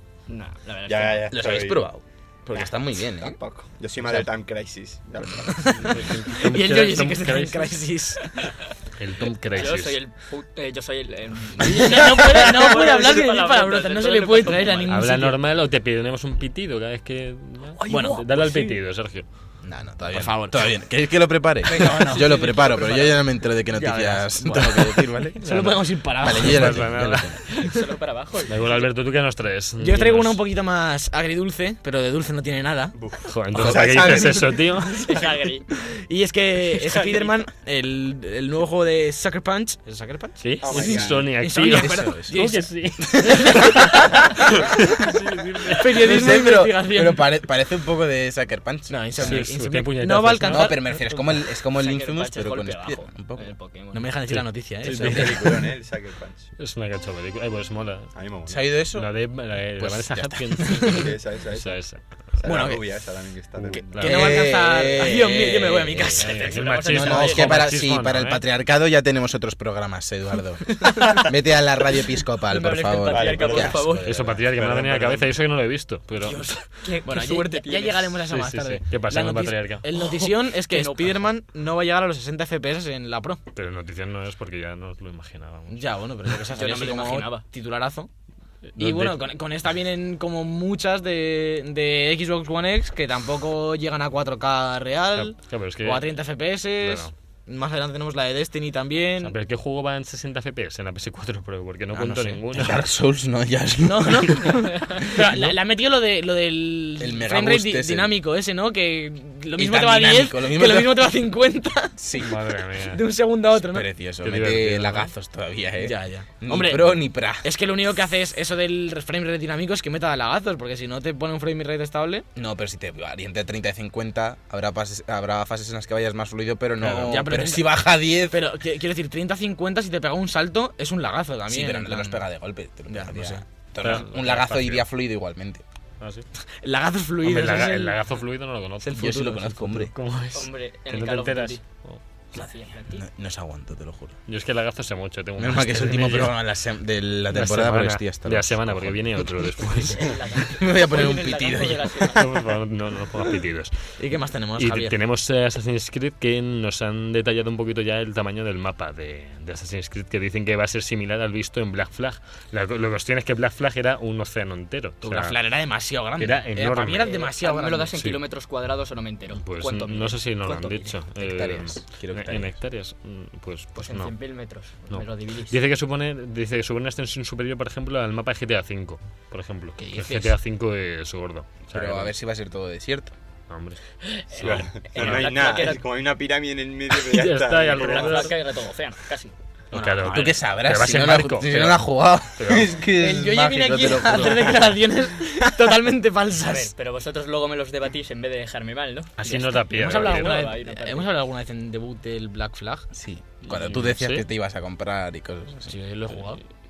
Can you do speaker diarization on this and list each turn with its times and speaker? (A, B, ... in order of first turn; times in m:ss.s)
0:00.3-0:01.4 A
0:00.9-0:01.9 B
0:01.3-0:03.4 C
0:03.2-0:05.9 B
0:04.0-0:04.3 C
0:05.6-0:08.4 D
0:05.8-0:07.8 E
0:09.0-0:10.0 E
0:09.5-0:15.0 A
0:11.6-0:15.4 D
0:14.9-0:19.3 E
0:17.8-0:18.6 A
0:17.9-0:18.8 D
0:19.6-0:25.4 C
0:20.0-0:20.6 D
0:21.7-0:23.0 D
0:23.7-0:26.8 D
0:25.4-0:27.4 E
0:26.2-0:27.4 C
0:27.5-0:28.8 A
0:28.5-0:30.4 E
0:29.8-0:33.0 D
0:33.0-0:33.3 B
0:33.2-0:35.0 E
0:33.5-0:34.6 C
0:33.7-0:34.0 D
0:34.9-0:35.6 A
0:36.1-0:44.7 D
0:36.9-0:37.3 A
0:40.4-0:46.4 E
0:40.6-0:41.3 B
0:40.8-0:42.4 C
0:43.1-0:43.5 C
0:45.7-0:47.3 D
0:46.0-0:49.5 C
0:48.9-0:50.8 D
0:49.2-0:50.8 E
0:50.4-0:53.5 C
0:51.8-0:54.0 A
0:53.9-0:55.6 D
0:54.3-0:55.6 E
0:54.9-0:56.5 B
0:56.6-0:58.1 E
0:58.2-0:58.7 B
0:58.5-0:59.1 C
0:58.9-1:02.0 E
0:59.8-1:00.7 C
1:00.6-1:01.1 D
1:00.8-1:01.8 B
1:02.4-1:04.4 B
1:02.4-1:03.0 D
1:03.7-1:06.5 D
1:03.9-1:04.4 E
1:04.0-1:06.2 C
1:06.2-1:07.7 A
1:06.2-1:08.4 E
1:06.8-1:14.4 C
1:10.8-1:11.3 A
1:12.5-1:14.1 A
1:13.1-1:15.3 B
1:13.8-1:16.5 E
1:16.2-1:18.2 A
1:17.0-1:23.4 D
1:18.3-1:19.9 E
1:20.7-1:21.2 A
1:23.6-1:26.4 E
1:25.7-1:28.1 D
1:26.5-1:27.4 A
1:28.7-1:29.3 E
1:28.8-1:39.4 D
1:35.2-1:36.2 E
1:36.8-1:37.1 E
1:39.2-1:42.9 E
1:41.9-1:44.7 C
1:43.8-1:52.0 D
1:47.0-1:48.2 C
1:49.5-1:51.2 C
1:52.0-1:52.4 C
1:52.2-1:53.0 E
1:52.8-1:53.9 D
1:53.6-1:57.5 C
1:54.2-1:55.1 E
1:55.8-2:02.3 D
2:02.4-2:08.5 C
2:06.8-2:12.2 D
2:11.5-2:15.6 C
2:12.9-2:13.4 D
2:13.8-2:14.8 E
2:16.0-2:16.2 E
2:16.6-2:18.0 D
2:17.2-2:19.1 E
2:18.8-2:19.8 D
2:18.9-2:19.9 C
2:19.9-2:22.0 E
2:20.3-2:21.6 A
2:22.3-2:23.0 A
2:22.4-2:24.2 C
2:24.3-2:26.4 E
2:25.4-2:32.1 C
2:27.3-2:30.1 E
2:29.9-2:32.4 A
2:32.1-2:33.7 E
2:34.0-2:35.0 D
2:34.6-2:45.4 E
2:45.0-2:47.9 D
2:46.2-2:47.2 E
2:47.0-2:51.0 A
2:49.4-2:54.1 E
2:51.2-2:52.6 C
2:53.8-2:55.6 A
2:54.9-3:02.1 E
2:59.8-3:00.4 D
3:01.7-3:03.1 C
3:03.5-3:03.8 E
3:04.1-3:05.8 A
3:04.3-3:05.3 E
3:04.4-3:08.3 B
3:06.9-3:08.4 E
3:07.7-3:09.3 A
3:09.7-3:12.8 E
3:09.7-3:10.3 D
3:10.0-3:14.8 C
3:12.9-3:16.7 D
3:16.5-3:21.1 A
3:19.2-3:20.5 E
3:19.7-3:22.9 D
3:22.9-3:25.7 C
3:23.5-3:24.2 E
3:25.7-3:26.4 D